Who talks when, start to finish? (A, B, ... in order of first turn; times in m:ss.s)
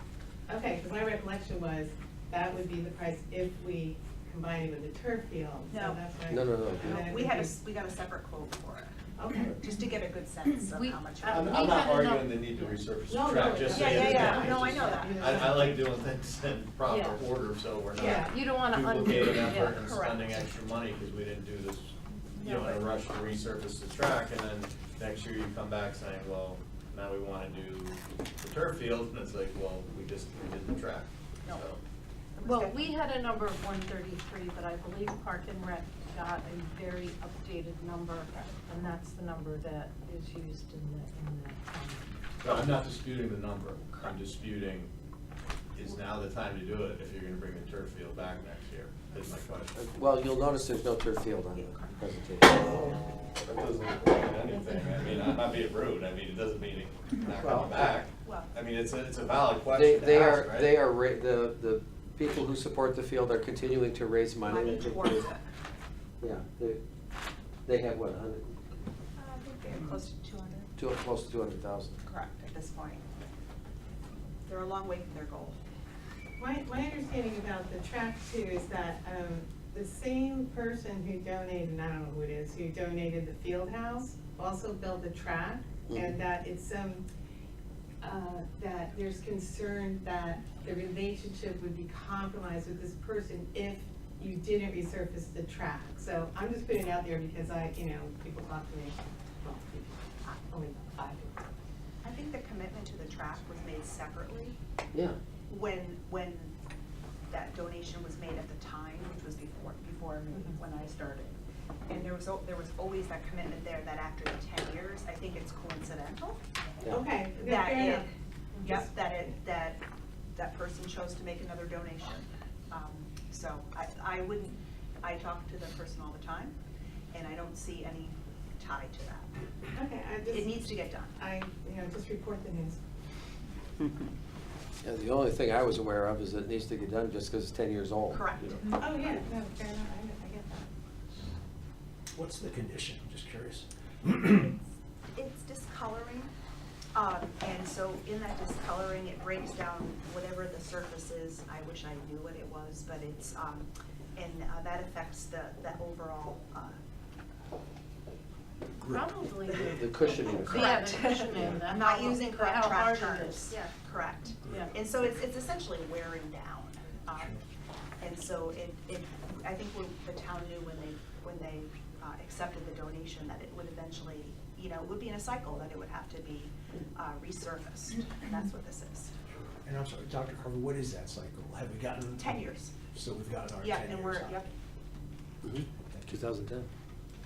0:00.5-0:07.6 A
0:05.7-0:06.0 B
0:06.3-0:07.0 C
0:06.8-0:08.9 B
0:09.2-0:09.6 A
0:09.6-0:11.6 B
0:10.5-0:12.8 D
0:11.2-0:31.8 E
0:13.1-0:15.8 A
0:13.7-0:15.6 B
0:16.8-0:17.2 D
0:17.9-0:18.3 B
0:18.0-0:18.2 A
0:18.1-0:19.8 D
0:19.7-0:20.2 B
0:22.3-0:22.9 B
0:31.4-0:31.7 B
0:32.3-0:32.9 B
0:32.4-0:42.1 D
0:42.4-0:44.9 E
0:45.7-0:49.8 E
0:49.7-0:53.0 C
0:51.5-0:52.0 B
0:53.4-1:00.8 E
0:57.4-0:57.7 C
0:58.2-0:58.5 B
0:59.7-1:05.2 C
1:04.4-1:05.5 B
1:06.2-1:06.8 C
1:07.6-1:08.6 C
1:09.2-1:10.7 B
1:10.8-1:12.0 C
1:12.0-1:13.0 B
1:14.4-1:15.6 B
1:16.4-1:27.0 A
1:25.9-1:26.2 C
1:28.0-1:41.5 A
1:42.0-1:44.5 B
1:45.5-1:46.5 B
1:47.3-1:56.4 B
1:56.9-1:58.1 A
1:57.3-1:58.1 B
1:58.6-1:59.8 B
1:58.6-1:58.9 A
2:00.3-2:06.6 B
2:07.1-2:09.3 B
2:09.7-2:10.6 A
2:10.3-2:11.1 B
2:11.2-2:12.8 A
2:14.8-2:18.6 C
2:18.1-2:18.8 B
2:18.7-2:20.7 A
2:22.1-2:24.5 F
2:25.1-2:26.3 B
2:26.9-2:36.8 B
2:38.8-2:39.7 F
2:38.8-2:43.7 D
2:39.6-2:41.5 C
2:40.3-2:47.4 B
2:44.4-2:44.7 D
2:48.0-2:59.1 B
2:59.3-3:02.4 F
3:02.2-3:02.8 B
3:02.9-3:04.5 F
3:03.6-3:04.5 B
3:05.4-3:06.7 C
3:05.8-3:06.3 F